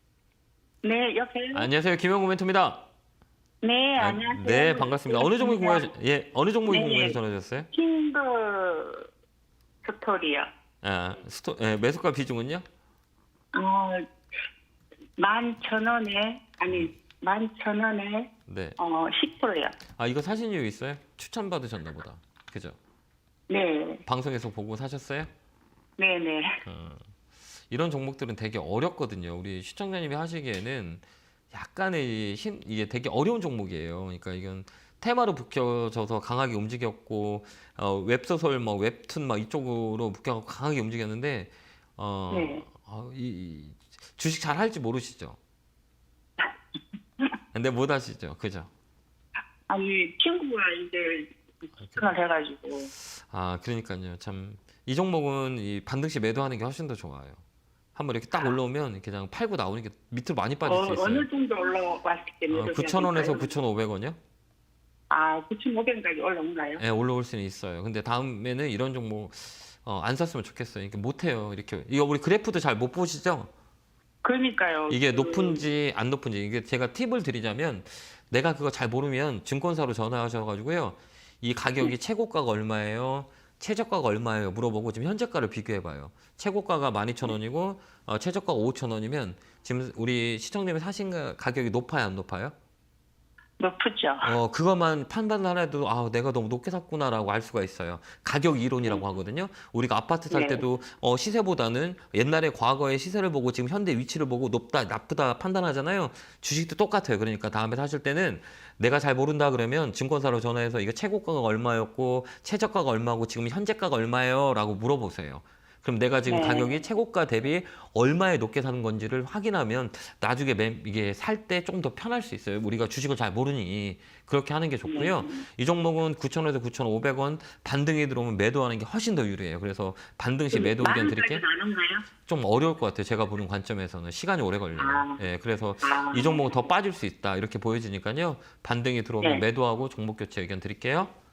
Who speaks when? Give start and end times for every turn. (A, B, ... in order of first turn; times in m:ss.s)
0:00.8-0:01.7 A
0:01.5-0:02.9 B
0:03.6-0:05.9 A
0:04.0-0:07.7 B
0:06.7-0:07.2 A
0:07.7-0:09.1 A
0:09.8-0:10.5 A
0:10.8-0:12.6 B
0:13.5-0:14.0 A
0:15.2-0:19.8 A
0:18.5-0:18.8 B
0:20.0-0:22.8 B
0:23.5-0:24.0 A
0:24.1-0:25.3 B
0:26.0-0:26.6 A
0:26.6-0:27.0 B
0:27.7-0:45.4 B
0:42.3-0:42.6 A
0:47.5-0:48.7 B
0:49.7-0:51.4 A
0:51.9-0:52.9 A
0:53.1-0:57.4 B
0:58.0-1:01.3 B
1:00.6-1:03.6 A
1:02.5-1:04.2 B
1:05.1-1:06.8 A
1:06.8-1:13.5 B
1:14.2-1:15.7 A
1:14.9-1:32.5 B
1:33.6-1:34.3 A
1:34.2-2:11.4 B
1:40.3-1:40.6 A
1:56.3-1:56.8 A
2:04.8-2:05.4 A
2:10.5-2:12.1 A
2:12.3-2:21.1 B
2:14.8-2:15.2 A
2:15.8-2:16.6 A